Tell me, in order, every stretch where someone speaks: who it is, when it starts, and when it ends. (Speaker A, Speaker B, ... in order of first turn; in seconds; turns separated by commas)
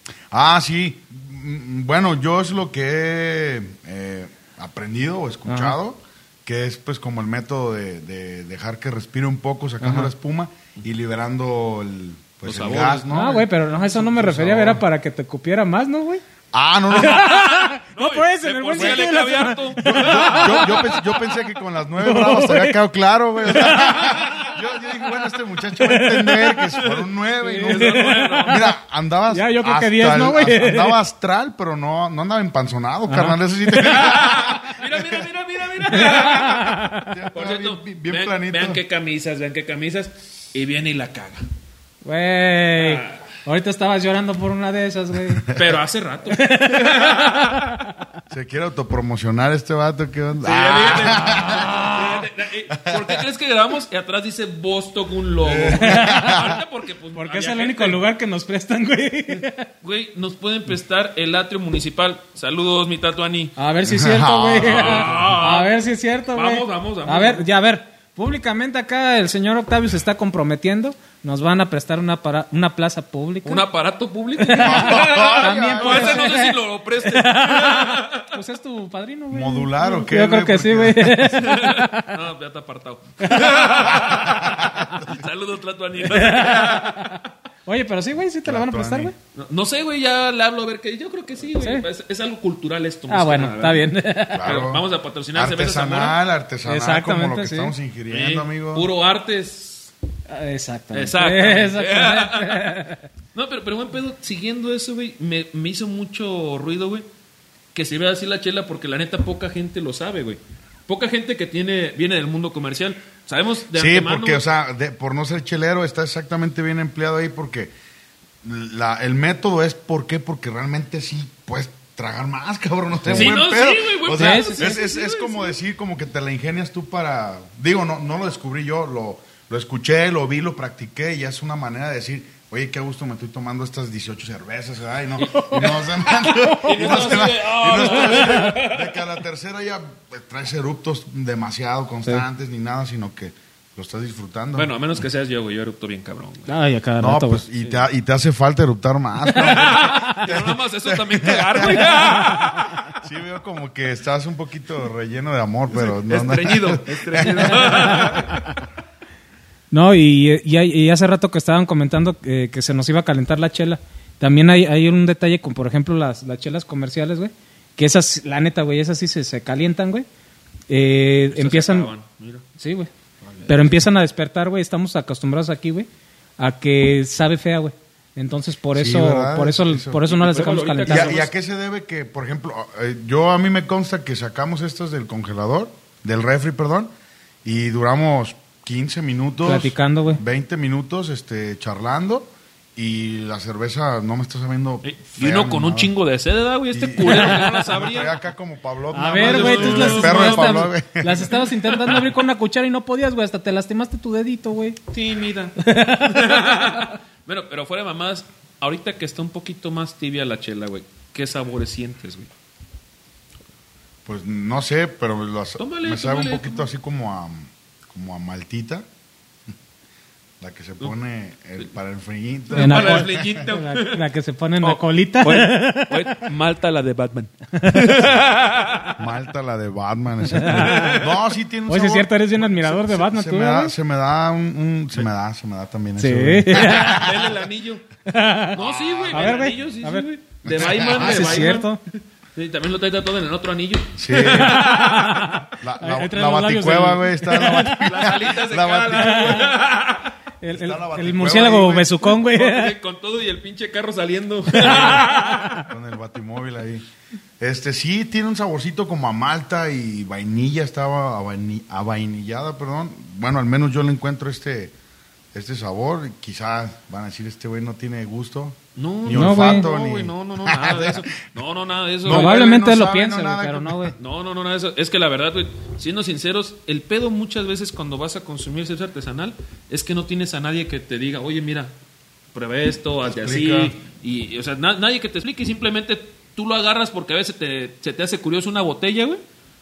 Speaker A: 0.3-14.8, Speaker B: 5.5-5.8, Speaker B: 9.8-10.1, Speaker C: 12.4-13.2, Speaker B: 13.1-16.2, Speaker A: 16.5-17.4, Speaker B: 16.9-21.2, Speaker C: 17.2-20.9, Speaker A: 18.7-19.1, Speaker A: 19.8-35.3, Speaker B: 22.0-22.8, Speaker B: 23.4-24.5, Speaker B: 25.8-28.7, Speaker C: 27.6-28.7, Speaker B: 29.3-31.0, Speaker B: 33.1-34.1, Speaker C: 33.8-41.4, Speaker B: 35.9-37.2, Speaker A: 37.1-38.8, Speaker B: 42.0-45.5, Speaker C: 42.8-43.2, Speaker C: 45.5-47.6, Speaker B: 46.4-47.9, Speaker A: 48.3-51.9, Speaker C: 50.4-58.0, Speaker B: 51.2-52.2, Speaker A: 52.7-53.2, Speaker A: 55.4-56.6, Speaker B: 55.7-56.5, Speaker B: 57.2-59.7, Speaker C: 59.8-63.6, Speaker B: 63.6-73.7, Speaker A: 63.8-65.5, Speaker C: 64.6-65.8, Speaker C: 66.3-67.5, Speaker C: 73.4-78.3, Speaker B: 74.4-82.2, Speaker A: 74.6-76.3, Speaker A: 79.3-81.3, Speaker C: 81.3-87.2, Speaker B: 83.2-83.9, Speaker A: 83.8-85.2, Speaker B: 86.1-89.2, Speaker A: 88.4-89.1, Speaker C: 89.3-96.2, Speaker B: 91.6-91.8, Speaker B: 93.1-94.6, Speaker A: 94.3-98.9, Speaker B: 96.7-97.8, Speaker C: 98.1-99.9, Speaker B: 100.3-103.0, Speaker C: 100.9-102.7, Speaker C: 103.3-107.1, Speaker C: 107.7-114.4, Speaker A: 113.7-117.7, Speaker A: 118.4-144.7, Speaker C: 123.1-125.6, Speaker B: 124.2-124.8, Speaker B: 135.2-137.0, Speaker C: 135.3-135.8, Speaker C: 136.5-138.9, Speaker B: 137.8-138.5, Speaker C: 144.6-146.5, Speaker B: 146.5-147.5, Speaker A: 147.0-158.4, Speaker B: 149.3-150.3, Speaker C: 149.4-152.9, Speaker C: 155.7-158.6, Speaker B: 159.7-170.1, Speaker B: 170.7-171.9, Speaker C: 171.3-172.5, Speaker B: 172.6-172.9, Speaker B: 173.5-181.2, Speaker A: 178.7-180.1, Speaker C: 180.1-181.3, Speaker A: 180.9-186.9, Speaker A: 187.4-195.9, Speaker B: 189.4-190.2, Speaker C: 194.8-198.2, Speaker A: 196.7-201.3, Speaker B: 198.9-204.8, Speaker C: 199.0-200.7, Speaker C: 201.7-202.1, Speaker C: 204.9-212.3, Speaker B: 205.6-206.8, Speaker A: 214.1-218.9, Speaker C: 215.6-216.7, Speaker A: 220.4-223.4, Speaker C: 222.5-224.1, Speaker B: 222.6-226.2, Speaker C: 224.6-229.0, Speaker B: 227.6-227.9, Speaker A: 229.0-237.4, Speaker B: 230.3-231.0, Speaker C: 230.5-231.2, Speaker B: 231.7-233.7, Speaker B: 236.0-237.1, Speaker C: 236.6-237.9, Speaker B: 238.1-238.6, Speaker C: 238.5-245.4, Speaker A: 238.5-239.5, Speaker B: 239.1-240.1, Speaker A: 240.4-241.5, Speaker B: 240.6-241.8, Speaker A: 244.0-244.7, Speaker B: 244.1-247.9, Speaker A: 245.6-249.6, Speaker C: 247.7-250.1, Speaker B: 248.9-249.5, Speaker B: 250.4-252.7, Speaker A: 250.5-252.0, Speaker C: 252.1-255.6, Speaker B: 254.5-255.7, Speaker A: 255.6-256.9, Speaker A: 257.4-264.7, Speaker A: 265.3-271.1, Speaker C: 268.8-272.5, Speaker B: 269.1-269.7, Speaker A: 272.0-273.9, Speaker B: 272.1-273.9, Speaker C: 274.0-281.7, Speaker C: 282.3-289.2, Speaker A: 283.1-283.7